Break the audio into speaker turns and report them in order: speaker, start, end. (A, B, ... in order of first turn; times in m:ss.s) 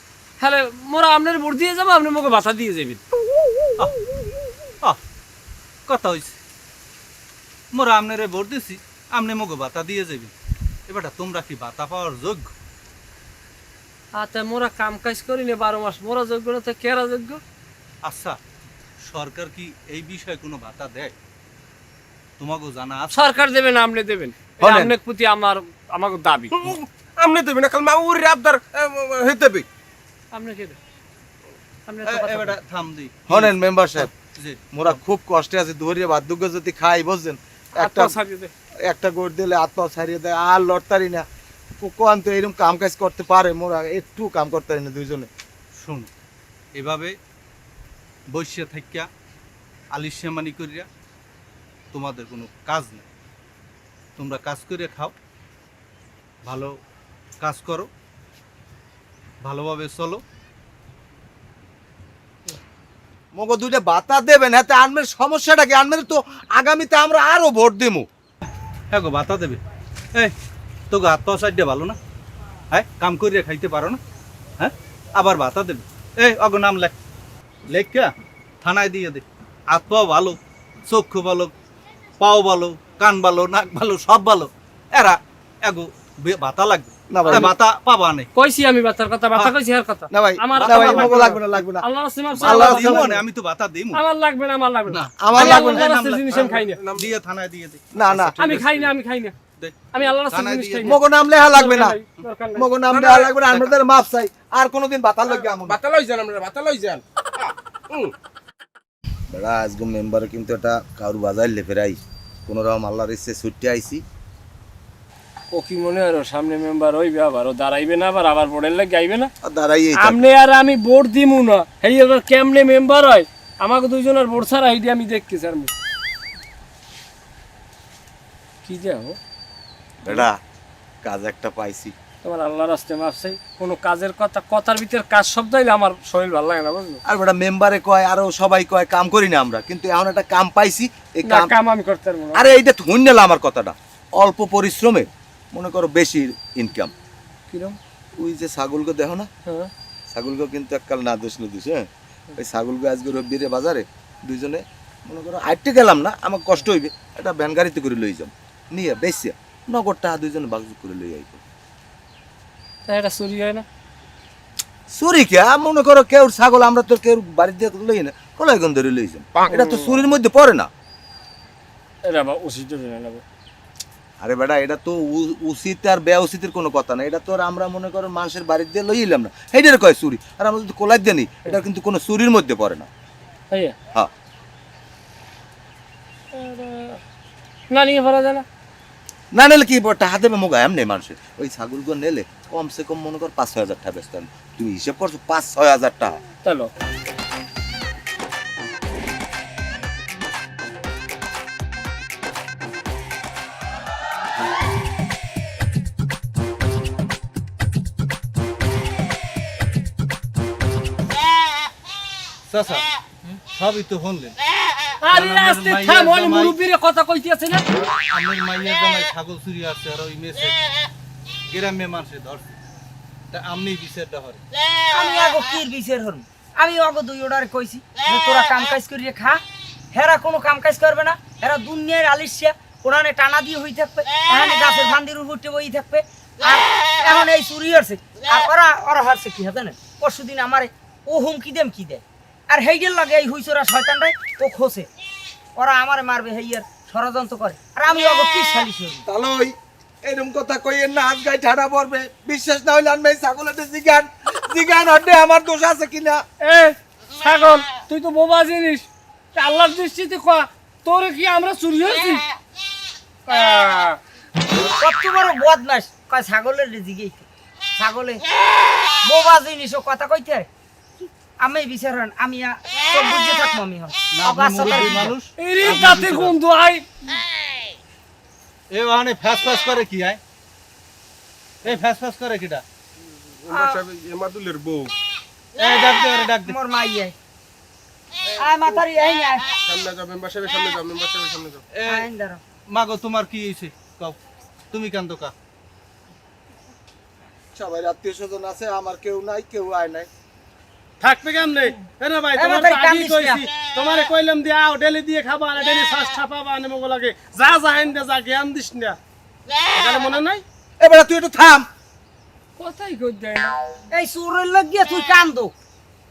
0:00.4-0:03.0 A
0:05.9-0:06.4 B
0:07.7-0:10.3 B
0:10.9-0:12.5 B
0:14.2-0:17.4 A
0:18.0-0:18.4 B
0:19.0-0:21.1 B
0:22.4-0:23.1 B
0:23.1-0:26.6 A
0:24.6-0:24.9 C
0:26.6-0:29.6 D
0:30.3-0:30.8 A
0:31.9-0:32.6 A
0:32.0-0:35.0 B
0:33.3-0:34.1 C
0:34.7-0:38.1 C
0:37.8-0:38.5 A
0:38.8-0:41.2 C
0:41.8-0:45.3 C
0:45.8-0:46.1 B
0:46.7-0:47.2 B
0:48.3-0:49.1 B
0:49.9-0:50.9 B
0:51.9-0:53.0 B
0:54.2-0:55.1 B
0:56.4-0:56.7 B
0:57.4-0:57.9 B
0:59.4-1:00.2 B
1:03.3-1:08.1 C
1:08.9-1:09.6 B
1:10.9-1:12.0 B
1:12.7-1:14.0 B
1:14.6-1:16.9 B
1:17.7-1:18.1 B
1:18.6-1:21.5 B
1:22.2-1:28.3 B
1:27.1-1:27.5 C
1:28.3-1:33.2 A
1:30.1-1:31.8 C
1:30.6-1:31.4 B
1:32.3-1:34.0 B
1:32.4-1:33.2 C
1:33.9-1:36.8 A
1:34.9-1:38.8 B
1:35.2-1:35.8 C
1:36.4-1:37.0 D
1:37.9-1:38.4 C
1:38.4-1:39.3 A
1:39.6-1:40.7 B
1:39.9-1:41.0 A
1:40.8-1:42.0 C
1:41.5-1:42.7 A
1:42.6-1:45.8 C
1:42.9-1:43.2 D
1:45.5-1:48.1 D
1:49.3-1:54.0 C
1:55.5-1:59.3 A
1:59.4-2:00.2 C
2:00.0-2:05.7 A
2:08.6-2:09.2 A
2:10.0-2:10.4 C
2:11.0-2:11.9 C
2:12.2-2:17.0 A
2:17.1-2:21.5 C
2:21.2-2:22.5 A
2:22.3-2:26.9 C
2:27.5-2:27.8 A
2:28.2-2:29.3 C
2:29.4-2:29.7 A
2:30.1-2:41.4 C
2:42.9-2:43.6 A
2:44.9-2:50.7 C
2:49.5-2:50.1 A
2:52.0-2:53.2 A
2:54.2-3:02.9 C
3:06.3-3:07.0 A
3:07.7-3:08.4 A
3:09.3-3:16.2 C
3:16.4-3:16.7 A
3:32.5-3:32.9 B
3:33.5-3:34.4 B
3:35.0-3:37.6 A
3:35.1-3:36.6 B
3:38.1-3:40.6 B
3:41.5-3:42.6 B
3:43.3-3:44.4 B
3:44.9-3:49.4 E
3:49.9-4:04.9 E
4:05.6-4:09.0 E
4:09.0-4:16.2 C
4:16.4-4:22.2 A
4:23.3-4:24.0 A
4:24.8-4:27.2 E
4:27.8-4:28.2 E
4:29.0-4:30.5 E
4:31.4-4:35.1 E
4:34.1-4:36.3 B
4:35.4-4:36.8 A
4:38.7-4:40.2 B
4:41.6-4:42.6 B
4:43.5-4:44.9 D
4:43.5-4:43.9 E
4:45.6-4:46.6 B
4:46.4-4:47.1 E
4:48.4-4:49.5 E
4:49.7-4:51.6 D
4:51.7-4:52.1 B
4:51.8-4:52.4 E
4:52.7-4:54.2 B
4:54.7-4:55.3 B
4:57.5-5:00.1 C
5:01.0-5:09.0 F
5:02.3-5:03.5 E
5:09.7-5:10.4 F
5:10.8-5:11.7 C
5:12.6-5:13.5 A
5:13.9-5:15.5 E